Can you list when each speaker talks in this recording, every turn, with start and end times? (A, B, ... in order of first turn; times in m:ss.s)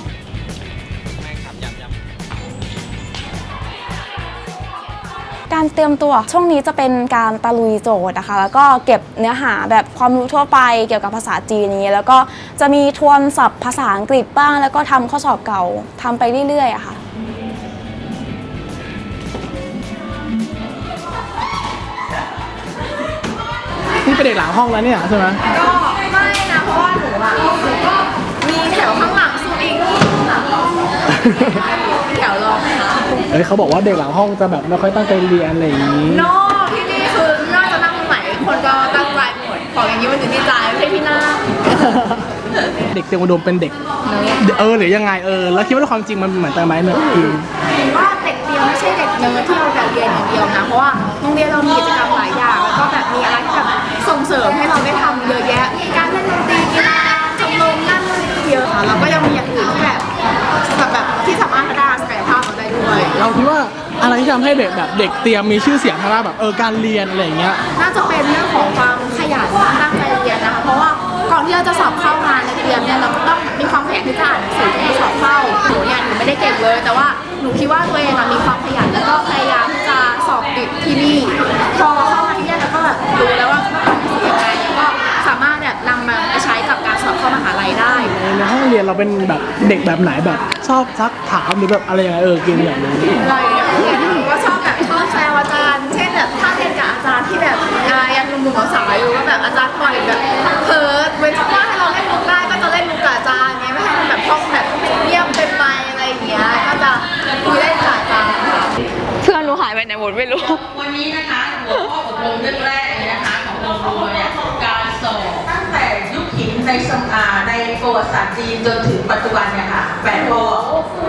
0:05.5-0:17.0 A
0:24.0-0:25.4 B
0:25.5-0:27.6 C
0:28.4-0:30.4 C
0:31.3-0:31.6 B
0:32.0-0:33.1 C
0:33.3-0:36.3 B
0:36.1-0:41.8 C
0:42.9-0:43.8 B
0:44.1-0:44.4 C
0:44.4-0:47.5 B
0:47.9-1:00.1 C
1:00.6-1:03.1 C
1:03.1-1:07.6 B
1:07.8-1:28.1 C
1:28.2-1:33.2 B
1:33.2-1:48.7 C
1:49.2-1:50.6 A
1:50.7-2:00.7 D